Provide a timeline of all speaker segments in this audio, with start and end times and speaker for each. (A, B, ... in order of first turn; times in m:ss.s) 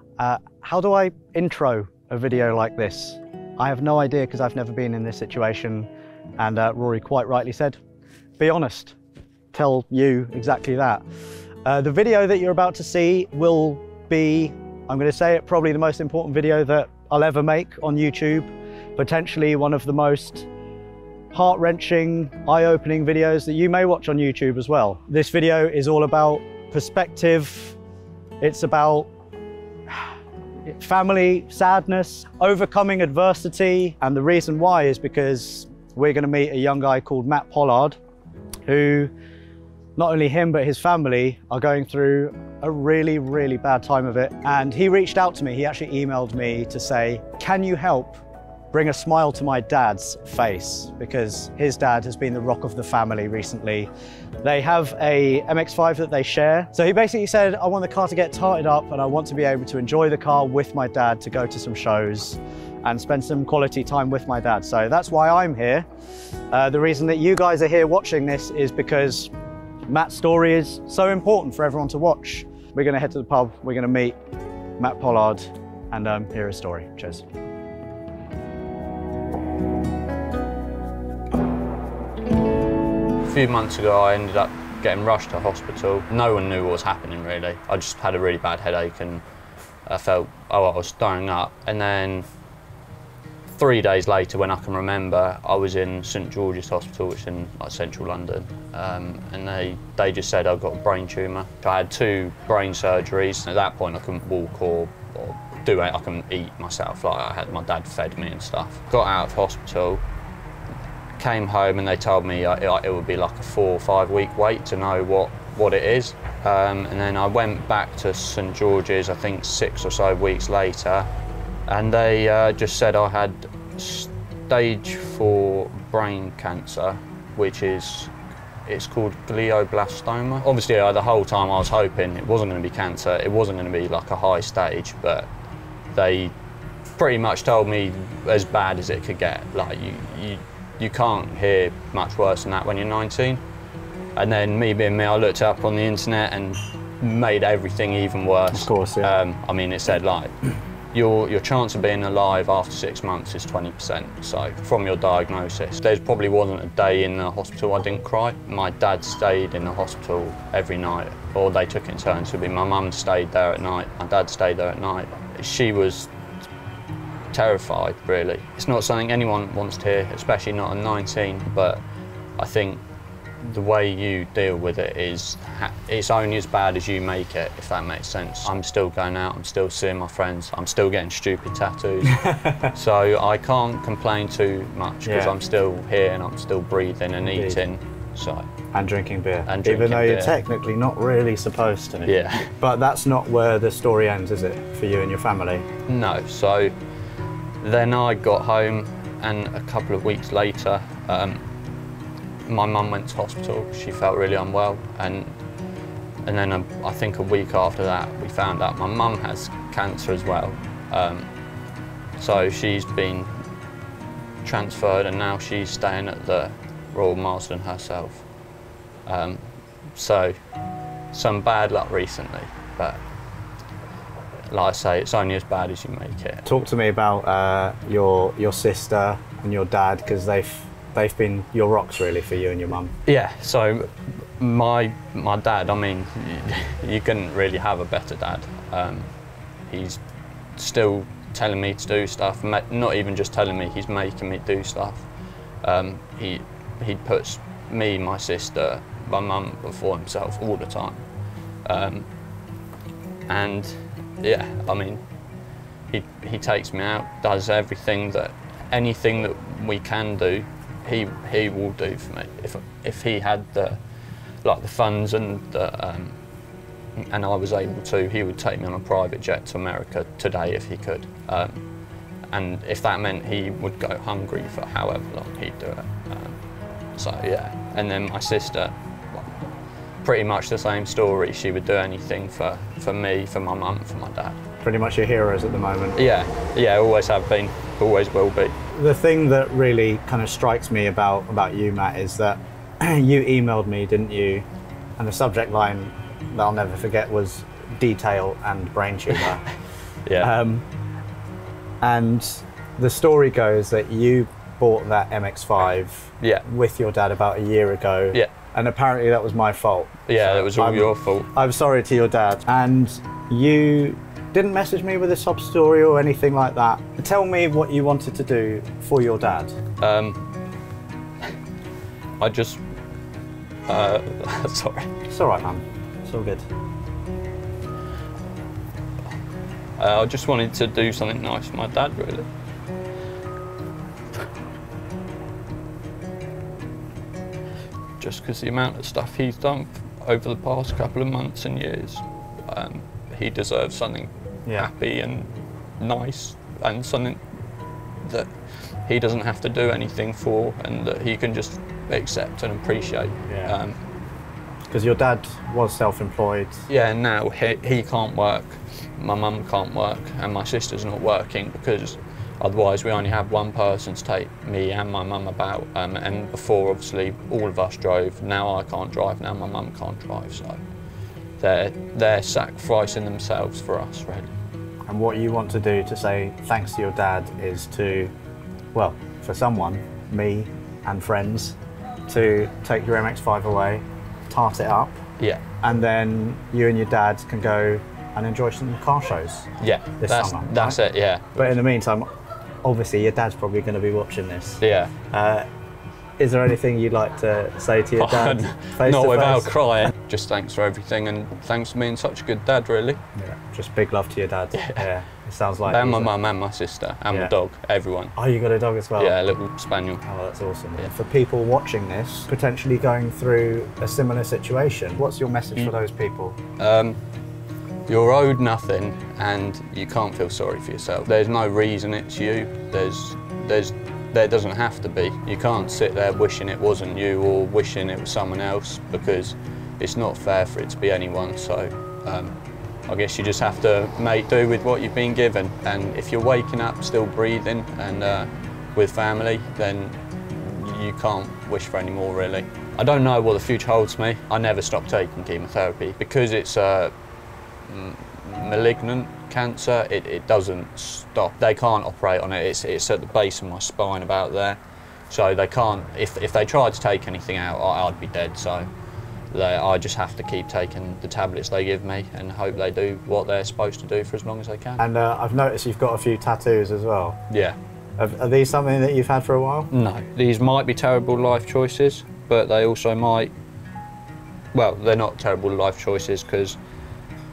0:00.2-0:07.8 A
0:08.4-0:09.0 A
0:09.5-0:11.0 A
0:11.6-0:20.5 A
0:21.3-0:27.8 A
0:28.4-0:29.1 A
0:30.6-0:38.0 A
0:38.7-0:39.1 A
0:40.0-0:53.9 A
0:54.4-1:05.8 A
1:06.5-1:09.3 A
1:09.9-1:14.2 A
1:14.8-1:17.2 A
1:23.3-1:29.2 B
1:29.9-1:32.2 B
1:33.5-1:50.0 B
1:51.2-2:01.1 B
2:01.7-2:08.1 B
2:08.7-2:15.3 B
2:15.9-2:16.3 B
2:17.0-2:23.4 B
2:24.2-2:30.3 B
2:28.5-2:29.1 A
2:30.9-2:46.1 B
2:47.3-2:51.8 B
2:52.4-2:52.8 B
2:53.4-3:08.5 B
3:02.1-3:02.7 A
3:05.1-3:05.4 A
3:07.2-3:07.6 A
3:08.7-3:15.7 A
3:09.5-3:10.4 B
3:12.0-3:12.5 B
3:15.9-3:16.7 B
3:17.6-3:21.4 B
3:22.5-3:25.4 B
3:26.2-3:31.3 B
3:32.2-3:33.3 B
3:34.4-3:38.2 B
3:39.1-3:40.4 B
3:41.1-3:43.0 B
3:44.5-3:46.5 B
3:46.5-3:52.9 A
3:53.0-3:59.1 B
3:59.7-4:00.0 B
4:00.6-4:05.1 B
4:05.6-4:11.0 B
4:11.6-4:12.1 B
4:13.3-4:15.0 B
4:15.9-4:23.8 B
4:24.4-4:26.2 B
4:27.0-4:31.6 B
4:32.3-4:36.4 B
4:37.0-4:39.3 B
4:40.0-4:44.4 B
4:44.6-4:46.0 A
4:46.0-4:48.5 B
4:48.7-4:54.4 A
4:55.0-4:59.5 A
5:00.0-5:00.3 B
5:00.2-5:00.6 A
5:01.8-5:19.5 A
5:10.1-5:11.3 B
5:19.8-5:20.2 B
5:22.2-5:22.6 B
5:23.7-5:24.9 B
5:25.1-5:26.4 A
5:29.8-5:32.3 B
5:38.0-5:47.2 B
5:48.0-5:48.3 B
5:48.9-5:53.8 B
5:53.3-5:53.6 A
5:54.7-5:56.6 A
5:56.7-6:10.6 B
6:11.4-6:14.3 B
6:14.9-6:18.1 A
6:18.7-6:21.6 A
6:22.1-6:25.0 A
6:25.6-6:29.5 A
6:29.6-6:31.3 B
6:30.0-6:30.8 A
6:31.4-6:32.1 A
6:32.6-6:34.6 A
6:34.6-6:34.9 B
6:35.1-6:35.5 A
6:36.2-6:39.6 A
6:38.0-6:43.0 B
6:43.2-6:46.1 A
6:44.5-6:44.8 B
6:45.7-6:48.1 B
6:48.2-6:49.2 A
6:49.0-6:50.0 B
6:50.0-6:56.4 A
6:56.6-6:57.0 B
6:57.9-7:12.3 B
7:12.9-7:26.9 B
7:27.7-7:38.7 B
7:39.3-7:44.8 B
7:44.8-7:47.2 A
7:47.3-7:47.6 B
7:48.0-7:49.7 A
7:49.7-7:53.3 B
7:54.5-7:56.6 B